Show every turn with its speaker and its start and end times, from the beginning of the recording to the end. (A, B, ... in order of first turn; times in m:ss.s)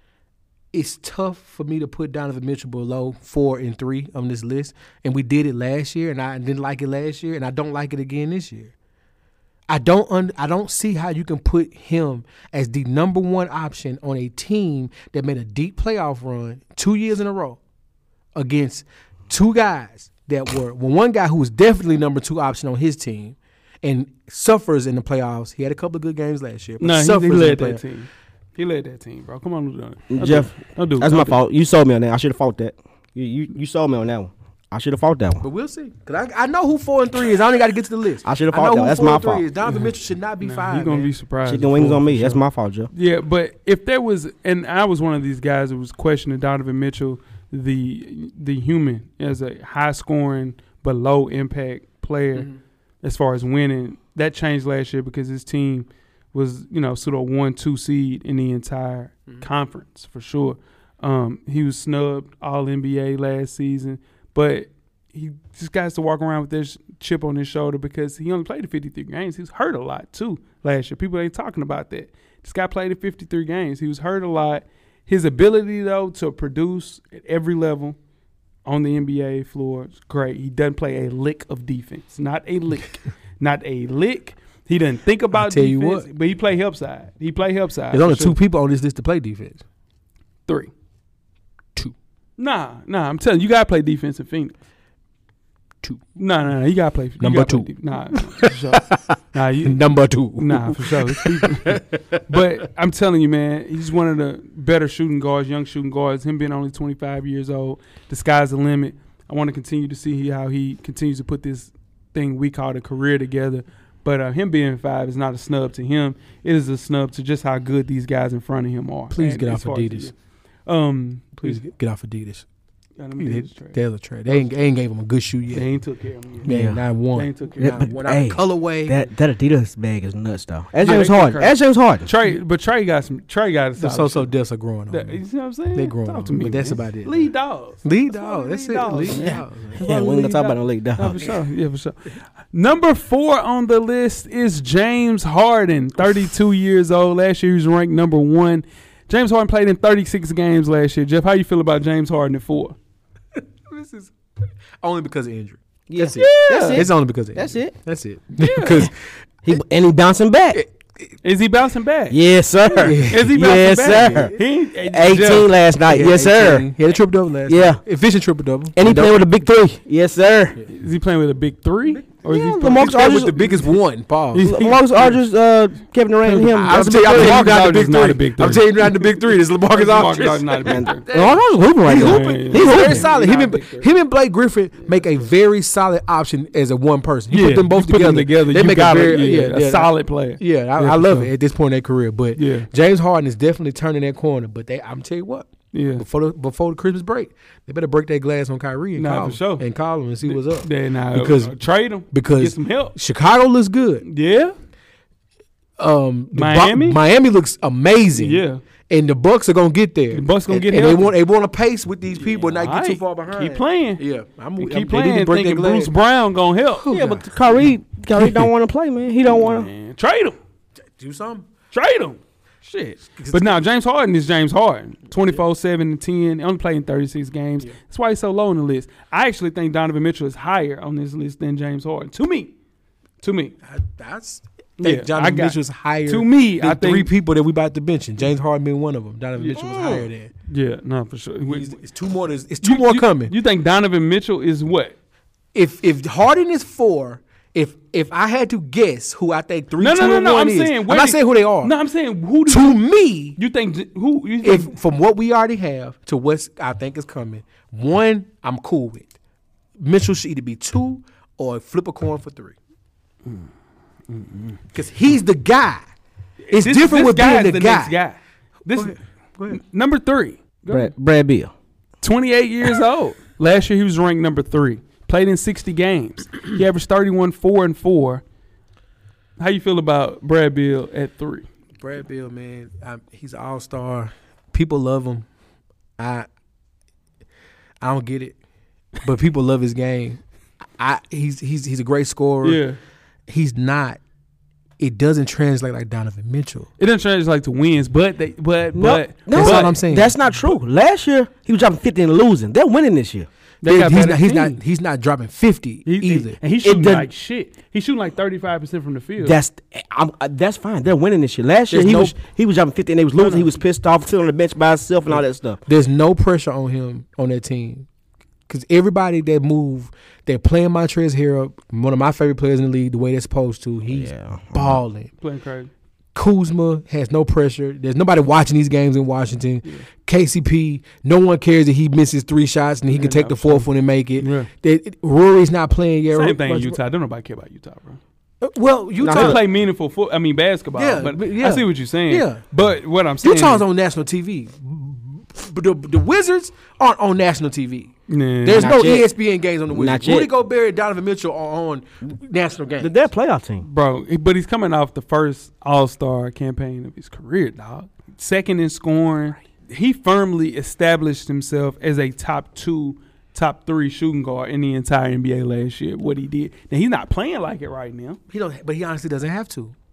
0:00.7-0:08.7 A
0:09.7-0:17.6 A
0:18.4-0:27.8 A
0:26.8-0:31.4 B
0:30.1-0:35.4 C
0:35.4-0:41.1 A
0:38.2-0:39.5 C
0:39.6-0:52.5 B
0:41.4-0:42.9 C
0:53.0-1:18.0 B
1:18.6-1:28.4 B
1:25.3-1:26.1 A
1:27.9-1:29.6 A
1:32.4-1:34.6 B
1:36.2-2:00.1 B
1:37.2-1:39.1 A
1:39.6-1:42.2 A
1:59.1-2:00.1 A
2:00.7-2:01.6 B
2:01.4-2:02.4 A
2:03.0-2:04.5 B
2:03.2-2:05.7 A
2:05.5-2:06.5 B
2:06.4-2:09.0 A
2:06.5-2:06.8 C
2:07.1-2:07.8 B
2:07.6-2:12.1 C
2:10.8-2:14.3 B
2:13.8-2:15.2 A
2:14.9-2:32.8 B
2:15.7-2:17.3 A
2:17.8-2:19.8 A
2:19.1-2:21.3 C
2:33.7-2:34.1 A
2:34.8-2:39.0 A
2:35.9-2:37.8 C
2:36.2-2:36.9 B
2:38.4-2:38.9 B
2:39.5-2:40.6 C
2:41.2-2:45.5 B
2:42.1-2:46.7 C
2:42.8-2:44.4 A
2:45.8-2:49.1 A
2:47.5-2:47.8 C
2:48.7-2:50.6 C
2:50.7-2:53.3 B
2:52.3-2:53.6 C
2:52.7-2:54.5 A
2:54.3-2:55.2 B
2:54.4-2:57.6 C
2:56.2-3:01.1 B
2:56.6-3:21.6 A
3:00.7-3:03.1 C
3:01.9-3:03.9 B
3:07.3-3:11.3 B
3:12.4-3:12.7 B
3:15.7-3:16.0 B
3:19.0-3:19.6 B
3:20.2-3:23.0 B
3:22.1-3:24.0 A
3:24.0-3:24.6 B
3:25.8-3:35.9 A
3:26.3-3:27.0 B
3:28.2-3:28.6 B
3:30.1-3:31.1 B
3:32.2-3:34.0 B
3:34.6-3:36.9 B
3:36.8-3:37.3 A
3:36.9-3:39.7 C
3:38.2-3:38.5 B
3:39.3-3:40.4 B
3:41.0-3:41.5 A
3:41.7-3:52.5 B
3:43.2-3:43.5 A
3:53.2-3:53.6 B
3:53.6-4:00.3 A
3:54.8-3:57.1 B
3:59.5-4:00.1 C
4:00.5-4:01.8 B
4:01.5-4:03.3 A
4:02.6-4:05.0 B
4:05.5-4:11.7 A
4:09.8-4:12.8 B
4:12.5-4:13.4 A
4:13.4-4:14.7 B
4:14.4-4:19.1 A
4:19.8-4:22.6 A
4:24.1-4:24.6 B
4:24.7-4:25.8 A
4:26.4-4:29.0 B
4:26.5-4:28.0 A
4:28.8-4:29.6 A
4:29.5-4:30.9 B
4:30.7-4:31.5 C
4:32.0-4:38.2 B
4:39.4-4:41.5 B
4:41.8-4:45.3 A
4:46.0-4:46.3 A
4:47.8-4:48.4 A
4:49.0-4:50.2 A
4:50.8-4:52.6 A
4:52.4-4:52.8 B
4:53.3-4:54.0 A
4:54.8-4:56.7 A
4:56.8-4:59.8 B
4:58.8-5:03.3 C
4:59.3-5:00.2 A
5:03.6-5:04.6 B
5:03.7-5:06.4 A
5:05.8-5:09.4 B
5:06.6-5:07.1 C
5:09.2-5:15.6 C
5:11.7-5:12.2 A
5:13.2-5:13.5 B
5:15.7-5:17.9 A
5:18.5-5:25.1 A
5:23.9-5:24.8 C
5:25.2-5:25.7 B
5:26.1-5:36.8 A
5:32.9-5:34.5 B
5:36.1-5:38.0 B
5:38.4-5:39.4 A
5:39.0-5:39.4 C
5:39.0-5:43.6 B
5:40.8-5:42.4 A
5:43.2-5:53.0 A
5:48.1-5:48.8 B
5:48.5-5:49.1 C
5:49.7-5:50.3 C
5:52.8-5:53.6 C
5:53.6-6:08.2 B
6:08.3-6:09.7 A